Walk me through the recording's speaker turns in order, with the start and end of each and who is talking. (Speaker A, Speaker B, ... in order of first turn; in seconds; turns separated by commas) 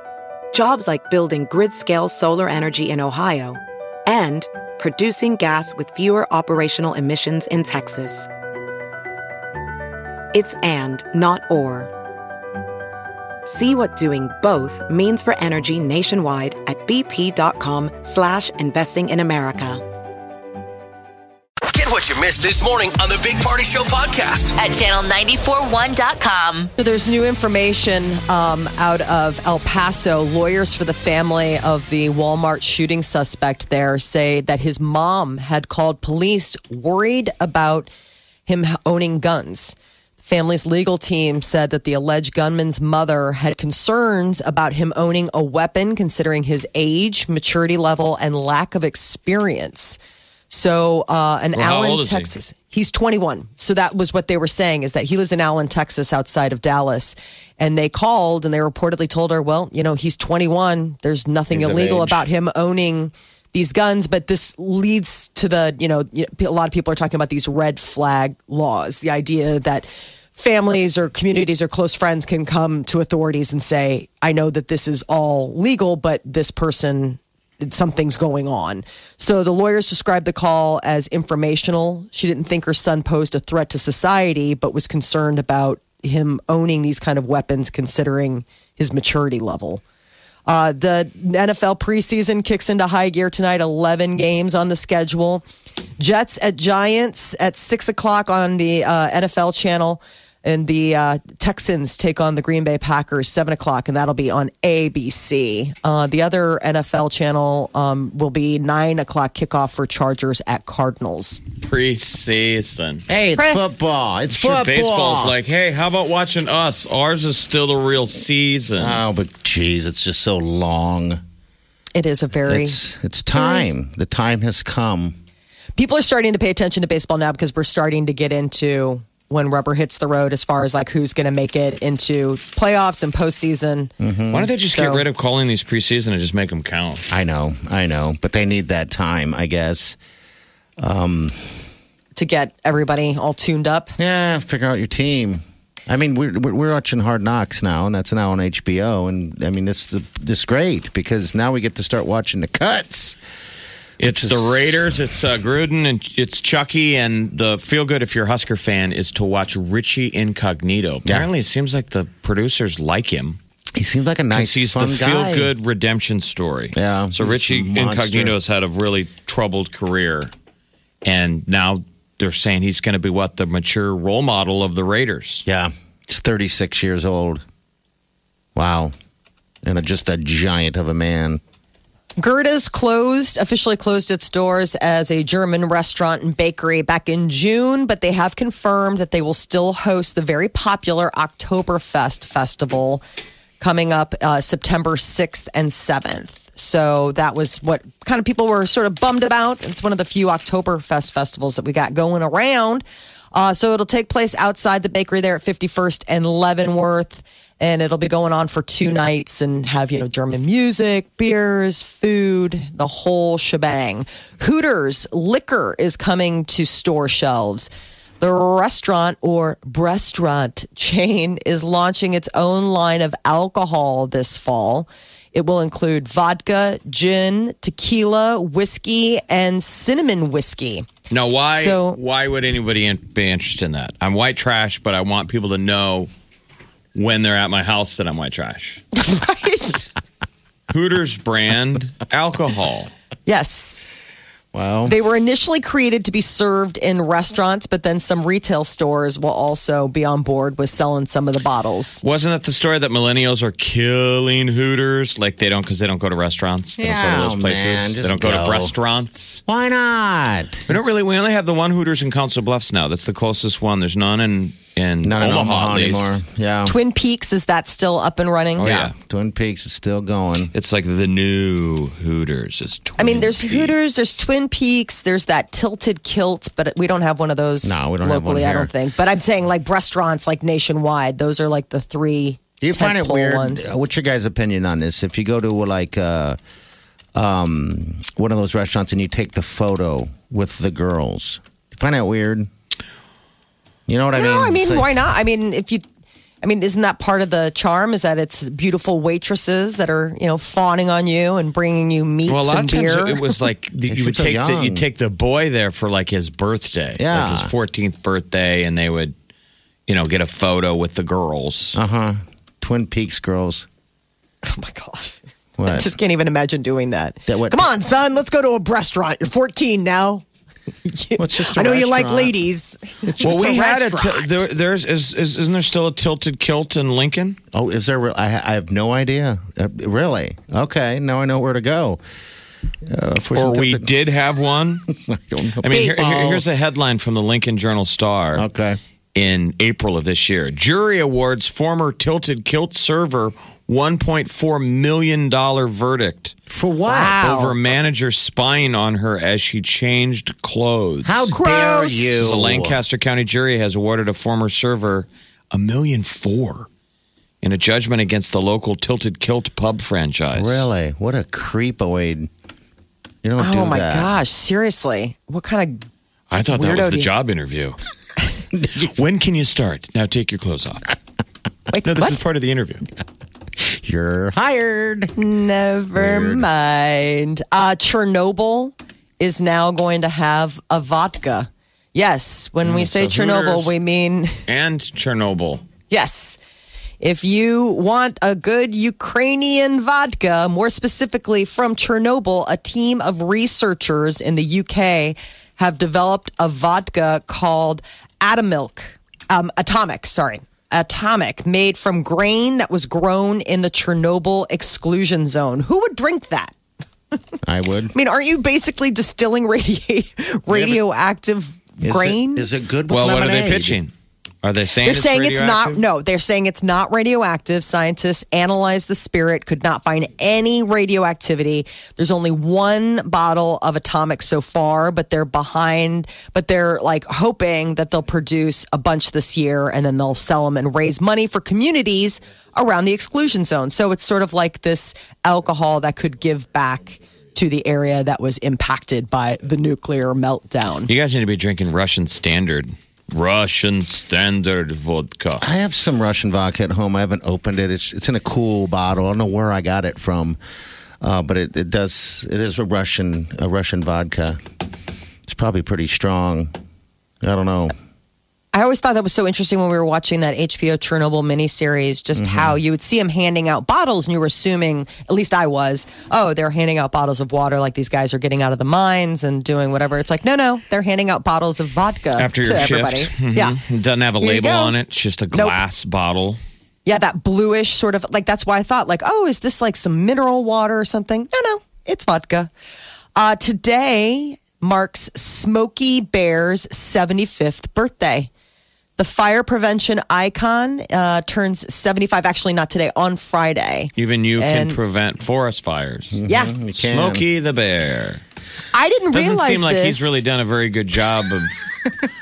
Speaker A: 0.5-8.3, Speaker A: 10.3-11.9, Speaker A: 13.4-19.8, Speaker B: 21.7-24.6, Speaker C: 24.6-26.7, Speaker D: 26.8-37.9, Speaker D: 38.5-50.0, Speaker D: 50.5-89.8, Speaker E: 51.5-52.3, Speaker F: 61.5-62.2, Speaker D: 90.5-95.4, Speaker D: 96.0-111.4, Speaker E: 111.6-113.0, Speaker F: 113.1-115.3, Speaker E: 114.3-119.0, Speaker F: 118.8-121.2, Speaker D: 121.9-122.8, Speaker F: 122.5-125.1, Speaker D: 123.3-123.6, Speaker D: 125.8-133.9, Speaker F: 134.0-134.5, Speaker E: 134.3-137.1, Speaker D: 134.6-135.0, Speaker F: 137.1-140.0, Speaker F: 140.8-141.6, Speaker D: 142.2-143.9, Speaker F: 144.0-153.2, Speaker E: 154.0-163.4, Speaker F: 154.0-154.8, Speaker F: 163.7-165.5, Speaker E: 164.3-170.3, Speaker F: 166.7-168.3, Speaker E: 171.0-175.4, Speaker F: 175.4-177.4, Speaker F: 178.5-178.9, Speaker F: 179.6-181.4, Speaker D: 182.2-193.0, Speaker D: 193.6-217.7, Speaker D: 218.2-230.9, Speaker E: 231.1-236.1, Speaker D: 231.5-232.0, Speaker E: 236.9-238.8, Speaker D: 238.9-239.9, Speaker E: 240.7-242.9, Speaker D: 243.2-243.8, Speaker F: 244.5-244.9, Speaker D: 244.9-252.0, Speaker E: 252.0-259.4, Speaker F: 256.8-258.7, Speaker F: 259.5-260.8, Speaker E: 260.7-266.2, Speaker F: 265.0-266.7, Speaker D: 266.6-268.7, Speaker E: 268.6-268.9, Speaker F: 268.6-270.5, Speaker E: 270.5-273.8, Speaker D: 273.0-283.7, Speaker F: 277.6-278.7, Speaker F: 282.6-286.4, Speaker F: 287.1-292.5, Speaker F: 293.9-294.9, Speaker D: 294.1-295.8, Speaker D: 296.4-303.3, Speaker E: 302.3-309.1, Speaker F: 303.9-304.8, Speaker F: 307.0-307.5, Speaker E: 309.9-311.8, Speaker F: 311.7-313.6, Speaker D: 314.4-320.2, Speaker F: 315.6-315.9, Speaker F: 317.3-317.7, Speaker D: 320.8-324.4, Speaker F: 321.2-322.4, Speaker E: 323.2-327.4, Speaker F: 327.5-332.0, Speaker F: 332.9-333.9, Speaker E: 333.3-334.9, Speaker F: 334.9-336.4, Speaker E: 335.6-338.4, Speaker F: 338.3-338.8, Speaker E: 339.1-346.3, Speaker F: 346.5-347.2, Speaker D: 346.9-347.5, Speaker E: 347.2-351.3, Speaker F: 351.0-352.8, Speaker D: 351.3-352.4, Speaker E: 352.2-356.7, Speaker E: 357.4-360.6, Speaker F: 360.3-362.3, Speaker F: 363.2-364.1, Speaker D: 363.4-365.8, Speaker E: 366.3-367.8, Speaker D: 366.5-367.1, Speaker E: 368.8-370.9, Speaker D: 371.7-372.2, Speaker E: 371.8-372.8, Speaker F: 373.6-375.1, Speaker D: 375.1-384.4, Speaker F: 375.9-376.4, Speaker E: 382.6-383.7, Speaker E: 384.4-385.6, Speaker D: 385.9-386.4, Speaker D: 387.0-406.5, Speaker F: 407.4-407.9, Speaker D: 407.9-412.5, Speaker F: 410.5-410.8, Speaker F: 411.8-413.8, Speaker E: 412.9-413.9, Speaker E: 414.4-415.8, Speaker D: 414.8-440.9, Speaker E: 440.9-445.4, Speaker F: 445.4-450.4, Speaker F: 451.0-454.4, Speaker F: 455.3-456.5, Speaker F: 457.2-457.7, Speaker D: 458.5-473.6, Speaker F: 462.1-462.6, Speaker E: 472.2-476.4, Speaker D: 474.2-474.7, Speaker D: 475.3-475.6, Speaker D: 476.9-482.5, Speaker D: 483.1-488.3, Speaker D: 489.0-494.8, Speaker E: 494.0-496.2, Speaker F: 496.1-497.2, Speaker D: 496.3-496.5, Speaker E: 496.8-498.2, Speaker D: 498.7-500.2, Speaker E: 499.1-501.6